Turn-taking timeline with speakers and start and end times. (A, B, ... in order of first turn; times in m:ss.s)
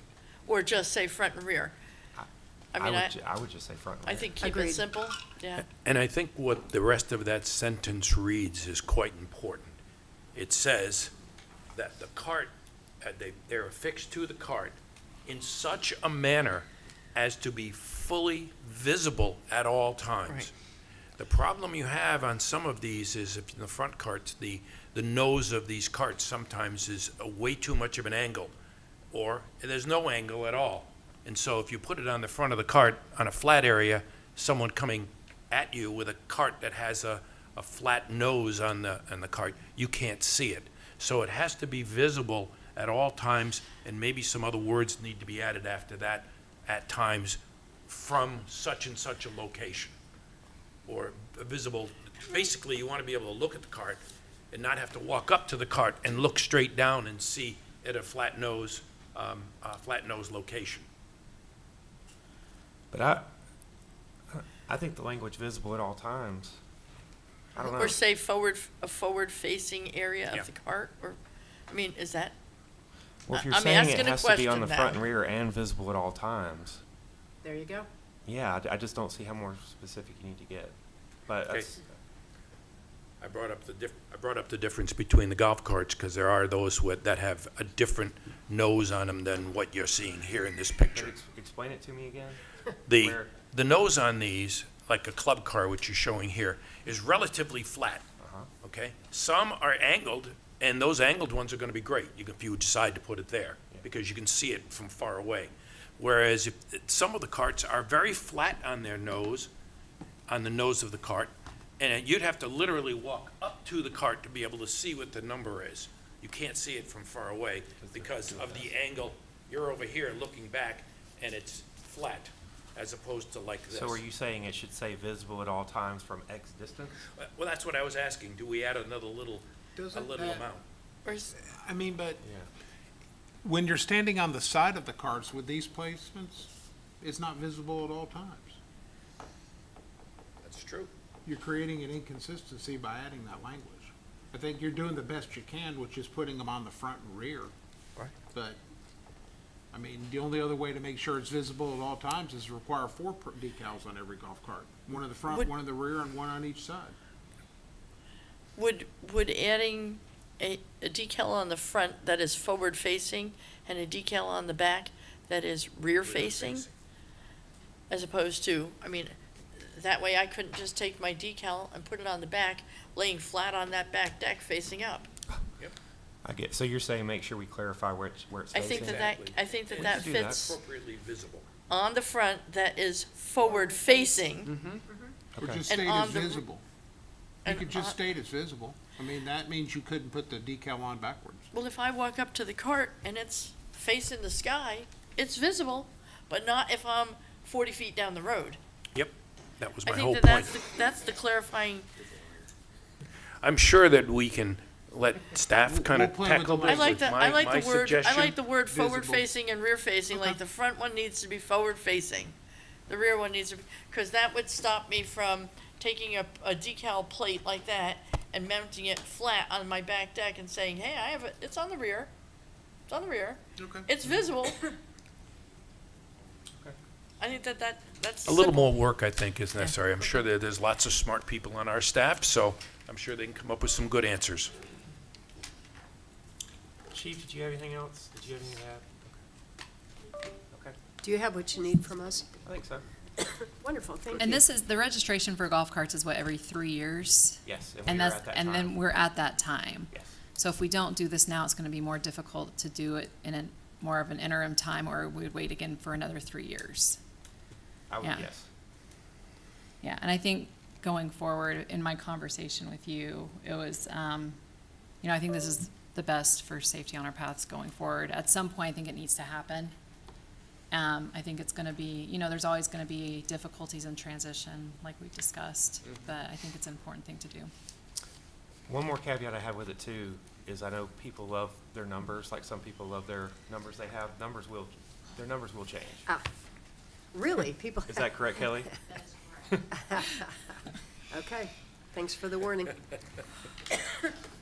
0:00.4-0:01.7 A
0:02.2-0:04.3 B
0:02.7-0:03.1 A
0:04.0-0:05.7 A
0:04.4-0:04.8 C
0:05.7-0:09.7 D
0:10.3-0:11.1 D
0:11.7-0:20.5 D
0:21.2-0:28.5 D
0:29.1-0:50.0 D
0:50.8-1:00.8 D
1:02.9-1:03.3 B
1:04.3-1:06.6 B
1:07.5-1:08.0 B
1:07.6-1:11.2 A
1:11.7-1:12.3 A
1:13.2-1:16.8 B
1:13.3-1:15.0 A
1:17.4-1:17.9 C
1:18.2-1:20.7 B
1:21.2-1:21.8 B
1:23.2-1:31.1 D
1:30.9-1:33.3 B
1:32.9-1:38.0 D
1:38.2-1:38.5 B
1:38.6-1:49.5 D
1:50.3-2:04.0 D
1:57.8-1:58.7 B
2:03.7-2:07.0 B
2:07.1-2:10.6 D
2:09.8-2:10.5 E
2:11.0-2:11.3 A
2:11.4-2:12.2 E
2:12.2-2:12.5 B
2:13.4-2:16.5 E
2:17.0-2:18.6 E
2:20.4-2:20.9 D
2:21.2-2:27.5 E
2:28.3-2:28.6 E
2:29.7-2:37.0 E
2:38.6-2:46.7 A
2:46.0-2:46.7 D
2:47.9-2:55.1 A
2:56.2-2:59.1 B
2:58.5-3:00.6 A
2:58.6-3:01.5 D
2:59.8-3:00.6 B
3:01.7-3:04.5 A
3:03.4-3:05.2 C
3:04.4-3:04.8 D
3:05.4-3:05.6 B
3:05.4-3:06.6 E
3:05.7-3:06.4 A
3:07.4-3:08.0 A
3:07.4-3:11.5 E
3:11.5-3:18.6 A
3:18.9-3:20.6 D
3:19.8-3:21.9 A
3:22.0-3:22.5 B
3:23.4-3:28.4 D
3:25.6-3:27.2 E
3:26.6-3:32.3 A
3:28.7-3:29.3 E
3:30.1-3:30.4 E
3:32.9-3:42.1 A
3:42.9-3:44.7 A
3:43.6-3:43.9 E
3:47.2-3:48.8 A
3:48.2-3:54.5 D
3:56.9-3:59.2 B
4:00.5-4:00.8 B
4:01.0-4:02.3 C
4:02.4-4:02.8 B
4:03.2-4:04.4 C
4:04.2-4:17.0 F
4:07.4-4:08.8 B
4:17.9-4:18.5 B
4:18.0-4:18.3 F
4:19.8-4:24.4 F
4:25.0-4:29.7 F
4:30.7-4:37.5 F
4:38.7-4:46.1 B
4:47.1-4:48.4 C
4:47.9-4:48.8 B
4:49.0-4:49.4 A
4:49.8-4:50.4 C
4:51.1-4:52.8 C